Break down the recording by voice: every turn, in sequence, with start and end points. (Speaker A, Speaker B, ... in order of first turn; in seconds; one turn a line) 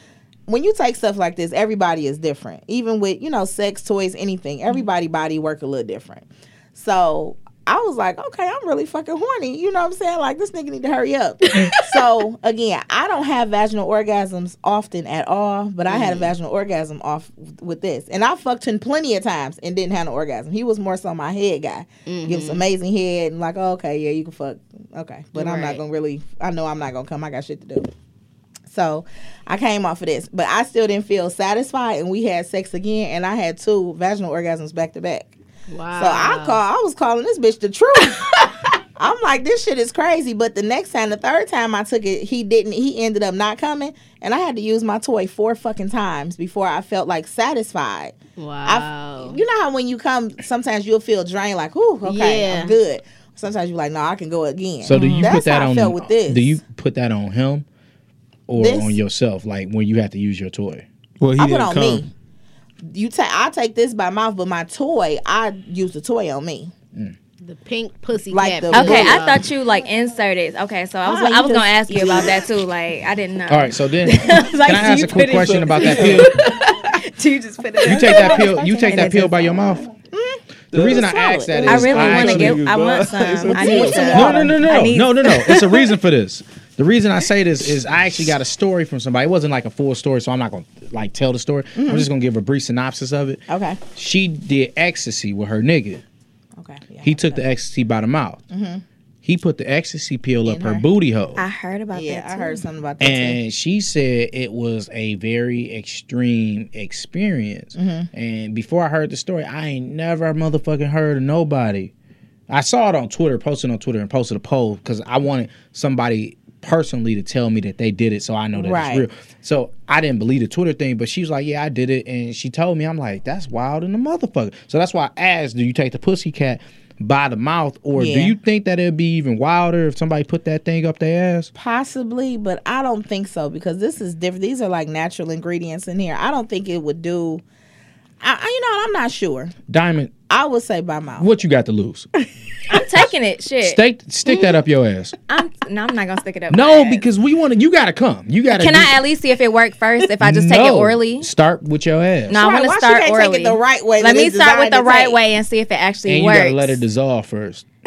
Speaker A: 0.5-27.9
Speaker B: 11.6-11.9
Speaker B: 15.9-16.3
Speaker B: 22.1-22.6
Speaker B: 25.4-25.8
Speaker A: 28.7-35.3
Speaker B: 35.7-36.6
Speaker A: 35.9-56.6
Speaker B: 48.4-49.4
Speaker B: 52.0-52.8
Speaker C: 54.8-57.7
Speaker D: 54.9-55.4
Speaker C: 58.5-60.9
Speaker A: 58.5-59.0
Speaker E: 61.2-62.0
Speaker A: 61.4-62.1
Speaker A: 62.9-66.7
Speaker B: 67.4-69.5
Speaker A: 68.3-69.3
Speaker D: 68.7-79.8
Speaker A: 71.1-72.5
Speaker C: 73.5-76.3
Speaker E: 75.4-76.3
Speaker C: 77.8-79.9
Speaker A: 77.9-78.6
Speaker A: 80.1-81.5
Speaker C: 80.7-82.6
Speaker E: 80.7-84.2
Speaker D: 81.6-85.9
Speaker A: 83.5-84.7
Speaker C: 83.8-96.0
Speaker A: 91.8-92.1
Speaker A: 93.5-93.8
Speaker A: 96.6-97.4
Speaker C: 97.0-98.4
Speaker A: 98.5-98.8
Speaker C: 99.2-101.4
Speaker A: 100.5-100.8
Speaker D: 101.4-102.6
Speaker A: 101.9-103.4
Speaker C: 103.0-111.9
Speaker A: 107.8-108.1
Speaker C: 112.5-131.5
Speaker A: 118.5-119.1
Speaker A: 128.0-128.3
Speaker A: 131.6-137.4
Speaker A: 138.2-139.5
Speaker C: 139.7-140.1
Speaker A: 140.3-141.3
Speaker C: 141.2-142.1
Speaker D: 142.7-143.8
Speaker C: 143.6-145.2
Speaker D: 145.3-147.1
Speaker C: 146.5-149.0
Speaker D: 148.6-151.3
Speaker C: 150.2-152.4
Speaker D: 152.3-156.8
Speaker A: 152.3-155.2
Speaker C: 156.1-157.7